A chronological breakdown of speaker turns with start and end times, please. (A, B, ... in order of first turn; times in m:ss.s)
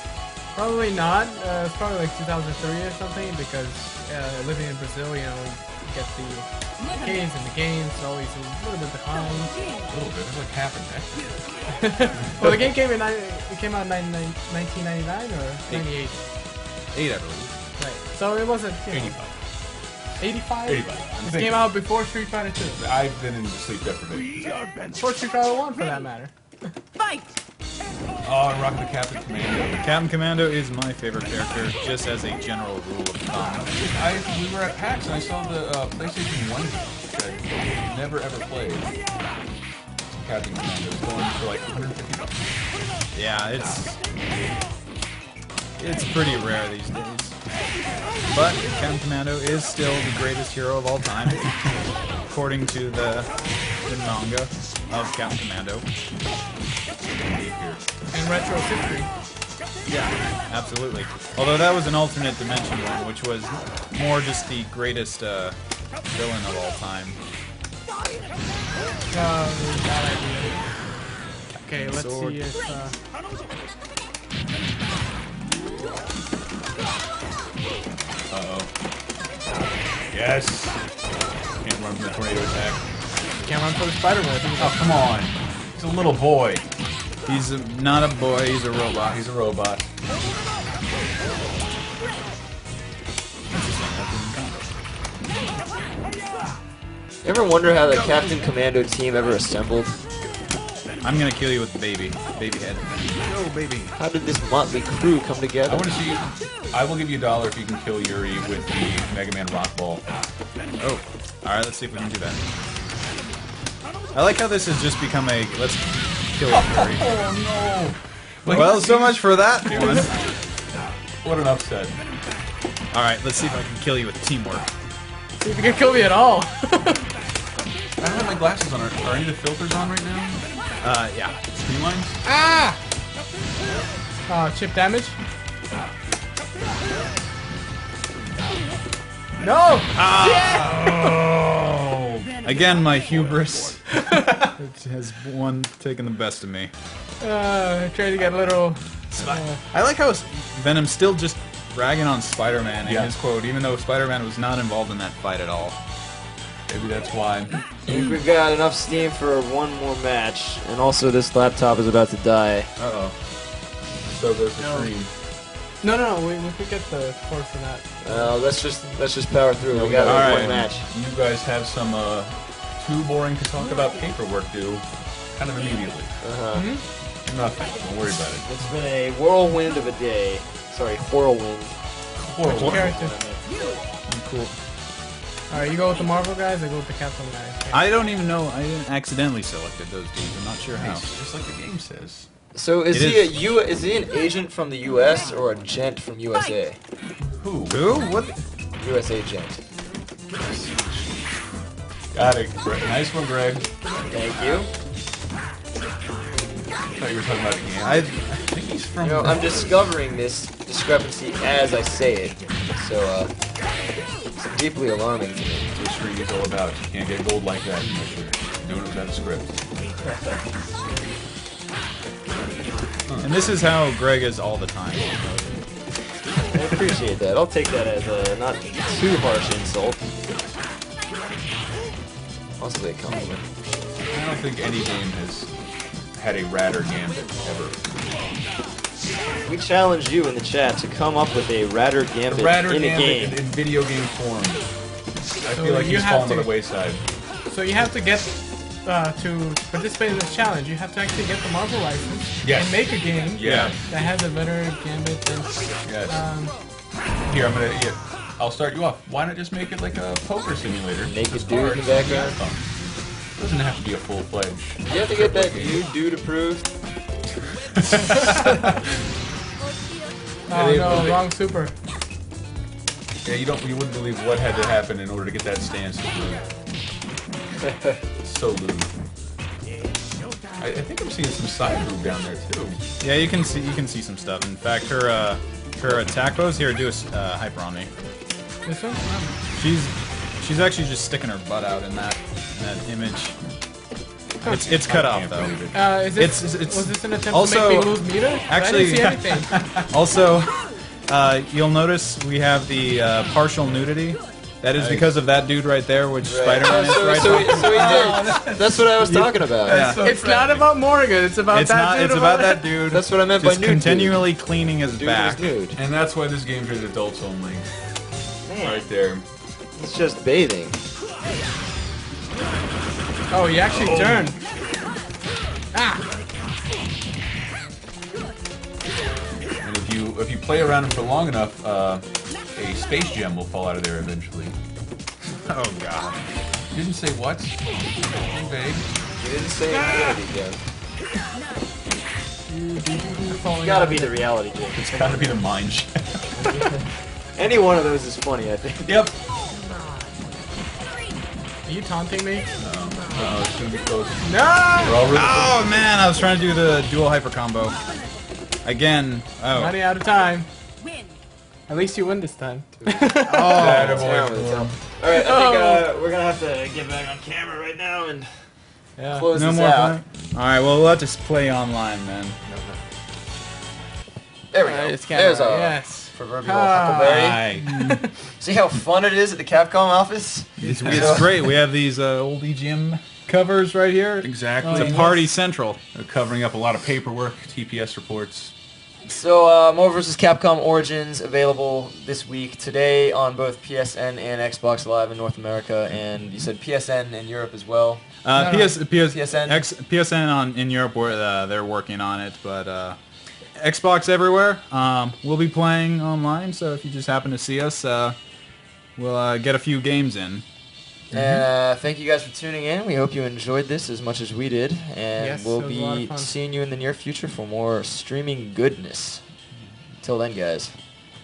0:00.5-0:09.7 A
0:09.8-0:11.4 B
0:11.8-0:16.2 A
0:16.9-0:17.5 C
0:17.8-0:19.2 A
0:18.9-0:19.3 B
0:20.2-0:22.8 A
0:20.6-0:21.7 B
0:22.8-0:24.9 B
0:24.9-0:26.7 A
0:28.2-0:29.9 B
0:29.8-0:33.7 C
0:33.7-0:38.9 B
0:40.1-0:42.4 B
0:43.1-0:44.0 C
0:45.8-0:47.4 C
0:48.3-0:51.6 C
0:52.3-0:55.8 C
0:57.2-0:57.8 B
0:58.1-0:59.1 A
0:59.9-1:05.6 C
1:06.1-1:07.2 C
1:09.1-1:10.7 A
1:11.6-1:13.0 A
1:12.1-1:12.3 C
1:18.3-1:18.7 B
1:20.1-1:20.8 B
1:21.6-1:22.8 B
1:23.4-1:25.2 A
1:24.6-1:26.6 B
1:27.2-1:29.2 C
1:29.0-1:29.9 B
1:33.5-1:34.7 C
1:37.2-1:40.0 D
1:37.9-1:38.2 C
1:41.0-1:43.9 C
1:44.0-1:45.9 D
1:45.6-1:50.0 B
1:50.8-1:52.4 C
1:54.1-1:57.1 C
1:56.4-2:00.1 B
1:58.5-2:00.1 C
2:01.2-2:02.0 B
2:02.9-2:04.7 C
2:05.4-2:07.0 A
2:08.0-2:10.4 B
2:10.8-2:11.7 C
2:11.6-2:12.2 B
2:12.2-2:12.8 A
2:14.3-2:15.2 A
2:19.4-2:20.0 A
2:19.9-2:21.1 C
2:22.4-2:23.8 C
2:23.1-2:23.5 B
2:24.0-2:24.5 A
2:24.6-2:26.7 C
2:27.2-2:29.6 A
2:29.2-2:35.8 C
2:32.8-2:33.1 B
2:36.7-2:37.9 B
2:37.8-2:42.7 D
2:42.8-2:43.2 B
2:43.8-2:45.1 B
2:44.6-2:44.9 A
2:45.8-2:48.3 A
2:48.0-2:50.9 D
2:49.7-2:56.2 B
2:50.0-2:50.6 C
2:56.2-2:56.7 D
2:56.5-2:56.8 A
2:57.2-2:58.5 B
2:58.4-3:01.8 D
3:02.2-3:03.0 B
3:02.4-3:02.9 C
3:02.5-3:03.2 A
3:02.7-3:03.8 D
3:04.1-3:04.5 C
3:05.5-3:07.8 A
3:07.7-3:11.1 C
3:10.8-3:12.3 B
3:12.5-3:16.8 D
3:12.9-3:13.3 C
3:17.3-3:17.9 B
3:17.7-3:18.4 C
3:18.8-3:19.6 D
3:20.4-3:21.1 B
3:22.1-3:23.7 B
3:24.1-3:24.7 D
3:26.9-3:29.7 B
3:27.8-3:28.1 C
3:29.0-3:33.3 D
3:34.4-3:35.7 D
3:35.8-3:39.6 B
3:40.0-3:40.5 D
3:43.0-3:43.3 B
3:43.2-3:45.6 C
3:46.5-3:50.1 D
3:52.6-3:53.4 D
3:54.1-3:55.5 B
3:56.1-3:57.8 B
3:59.4-4:03.4 D
4:02.3-4:04.6 B
4:05.4-4:07.0 B
4:05.5-4:06.5 A
4:07.4-4:16.6 A
4:12.4-4:13.9 B
4:13.4-4:13.7 C
4:15.8-4:16.2 B
4:17.2-4:25.8 B
4:21.0-4:22.4 D
4:24.8-4:26.7 D
4:27.8-4:28.6 B
4:30.5-4:31.7 A
4:30.5-4:31.3 B
4:33.2-4:36.5 B
4:38.2-4:38.9 B
4:40.6-4:42.8 B
4:43.0-4:47.9 C
4:48.6-4:49.4 A
4:49.5-4:53.4 C
4:54.4-4:56.0 B
4:54.4-4:55.6 C
4:55.7-4:59.7 A
4:56.1-5:08.6 C
5:04.8-5:05.1 B
5:06.2-5:09.9 D
5:07.6-5:10.6 B
5:09.6-5:10.0 C
5:10.0-5:12.8 A
5:11.5-5:15.5 C
5:12.9-5:14.2 D
5:14.9-5:15.8 D
5:15.7-5:17.7 B
5:18.4-5:18.9 D
5:18.6-5:19.2 B
5:19.8-5:20.8 D
5:23.3-5:24.4 A
5:23.7-5:24.3 B
5:25.7-5:26.0 A
5:29.6-5:34.6 B
5:35.4-5:36.3 C
5:36.7-5:38.8 B
5:39.2-5:40.6 D
5:42.5-5:44.1 A
5:43.5-5:45.4 D
5:44.7-5:46.4 B
5:46.5-5:46.8 D
5:47.3-5:49.1 D
5:48.8-5:49.1 B
5:49.7-5:50.0 A
5:51.6-5:53.1 A
5:52.6-5:55.7 B
5:54.2-5:55.1 A
5:55.1-5:57.8 C
5:58.6-5:59.8 C
5:59.5-6:00.5 A
6:01.7-6:03.9 A
6:02.8-6:08.5 D
6:03.2-6:04.7 C
6:03.4-6:04.7 B
6:05.1-6:05.9 A
6:09.0-6:09.3 A
6:09.1-6:10.0 D
6:09.3-6:12.4 C
6:12.4-6:12.8 D
6:14.5-6:17.5 D
6:14.6-6:18.1 A
6:17.0-6:18.0 C
6:18.3-6:21.5 D
6:20.6-6:21.3 B
6:20.7-6:25.8 C
6:24.2-6:25.2 B
6:24.6-6:25.1 A
6:25.9-6:28.5 B
6:29.0-6:38.1 D
6:38.2-6:43.0 C
6:38.4-6:38.7 A
6:38.9-6:39.6 D
6:43.6-6:48.2 C
6:49.0-6:50.4 C
6:51.1-6:59.2 D
6:51.1-6:51.4 B
6:55.2-6:56.3 A
7:00.0-7:00.7 D